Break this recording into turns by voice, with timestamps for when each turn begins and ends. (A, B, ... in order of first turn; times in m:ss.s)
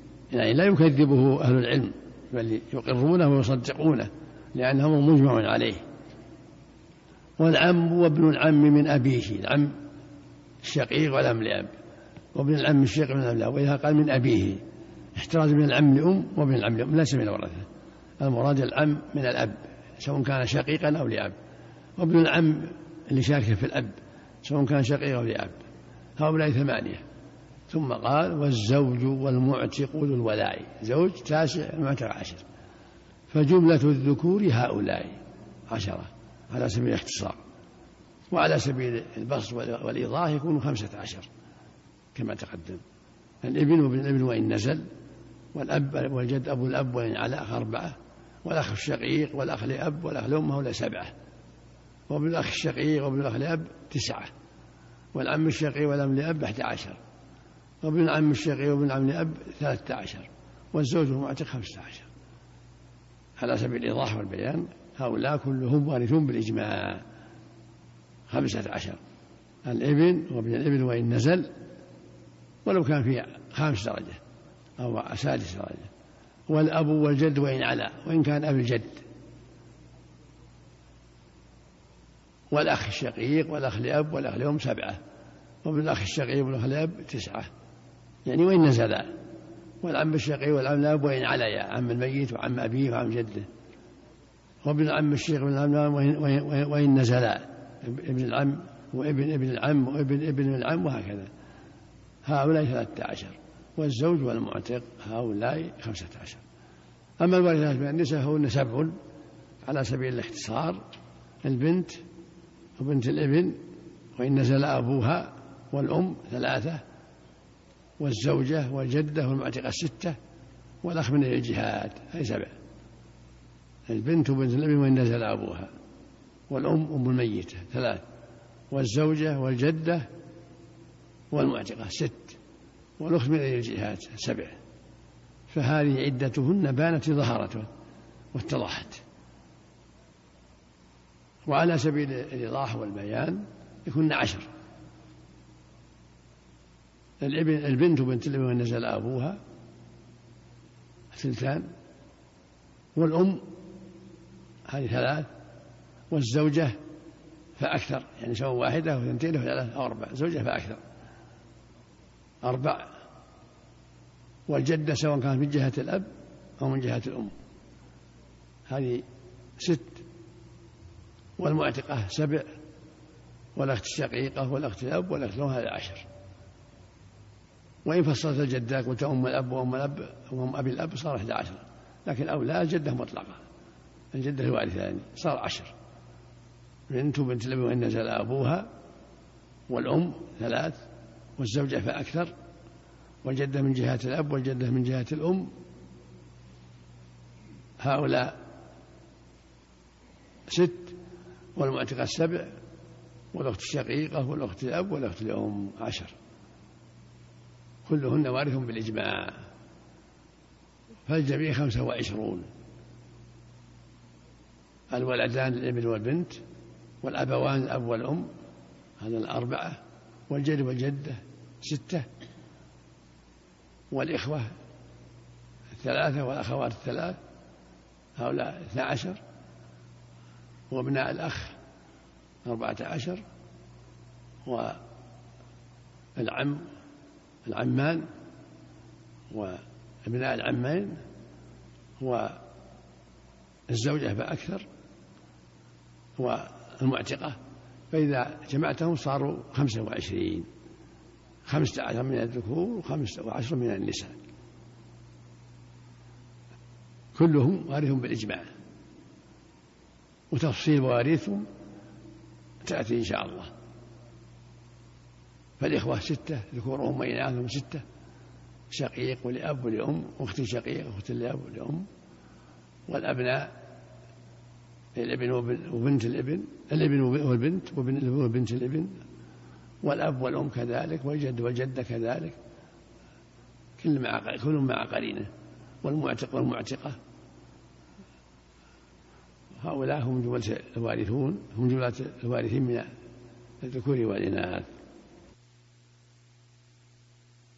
0:00.3-0:05.8 A
0:07.4-0:09.8 A
0:10.6-0:11.7 A
0:12.3-0:14.6 A
0:15.2-0:17.7 A
0:18.2-0:21.4 A
0:22.0-0:25.6 A
0:26.2-0:27.0 A
0:27.7-0:32.4 A
0:33.3-0:35.2 A
0:35.7-0:37.4 A
0:38.3-0:41.3 A
0:42.2-0:42.8 A
0:43.4-0:44.9 A
0:45.5-0:51.1 A
0:52.1-0:54.3 A
0:55.1-0:57.0 A
0:57.8-1:02.1 A
1:03.4-1:07.0 A
1:08.3-1:09.0 A
1:09.6-1:11.5 A
1:12.6-1:14.2 A
1:14.8-1:15.9 A
1:16.5-1:19.0 A
1:22.5-1:25.0 A
1:25.6-1:27.5 A
1:28.3-1:29.1 A
1:29.8-1:33.5 A
1:34.6-1:41.3 A
1:42.2-1:46.4 A
1:47.2-1:49.0 A
1:49.6-1:50.8 A
1:51.4-1:52.0 A
1:52.8-1:53.6 A
1:54.2-1:56.8 A
1:58.0-2:00.2 A
2:00.8-2:02.5 A
2:03.9-2:05.7 A
2:06.5-2:08.0 A
2:08.7-2:10.1 A
2:11.3-2:12.4 A
2:13.0-2:14.6 A
2:15.5-2:17.7 A
2:18.3-2:19.0 A
2:21.5-2:24.5 A
2:27.2-2:29.4 A
2:31.1-2:31.7 A
2:33.0-2:33.5 A
2:34.7-2:35.3 A
2:36.1-2:36.8 A
2:37.6-2:40.8 A
2:42.4-2:42.9 A
2:44.5-2:47.4 A
2:48.7-2:49.0 A
2:49.6-2:50.0 A
2:51.4-2:52.5 A
2:53.6-2:56.0 A
2:57.8-3:03.4 A
3:04.1-3:05.7 A
3:06.9-3:08.7 A
3:09.7-3:10.8 A
3:11.4-3:12.3 A
3:13.2-3:15.5 A
3:17.8-3:18.4 A
3:20.5-3:21.0 A
3:21.6-3:22.5 A
3:23.3-3:26.1 A
3:27.9-3:29.4 A
3:31.1-3:32.5 A
3:34.9-3:36.4 A
3:37.0-3:38.3 A
3:39.0-3:42.1 A
3:43.9-3:44.5 A
3:45.7-3:47.2 A
3:48.2-3:49.2 A
3:50.7-3:51.6 A
3:52.5-3:53.2 A
3:54.5-3:54.8 A
3:56.2-3:56.7 A
3:57.5-3:58.1 A
3:59.3-4:01.0 A
4:02.0-4:02.4 A
4:03.7-4:04.7 A
4:06.2-4:07.4 A
4:07.9-4:10.5 A
4:11.5-4:14.2 A
4:17.2-4:18.5 A
4:20.3-4:21.5 A
4:22.6-4:23.5 A
4:25.6-4:27.8 A
4:28.7-4:31.9 A
4:32.9-4:33.5 A
4:35.0-4:39.0 A
4:39.8-4:42.4 A
4:43.8-4:45.3 A
4:45.8-4:47.0 A
4:49.6-4:52.9 A
4:53.6-4:54.7 A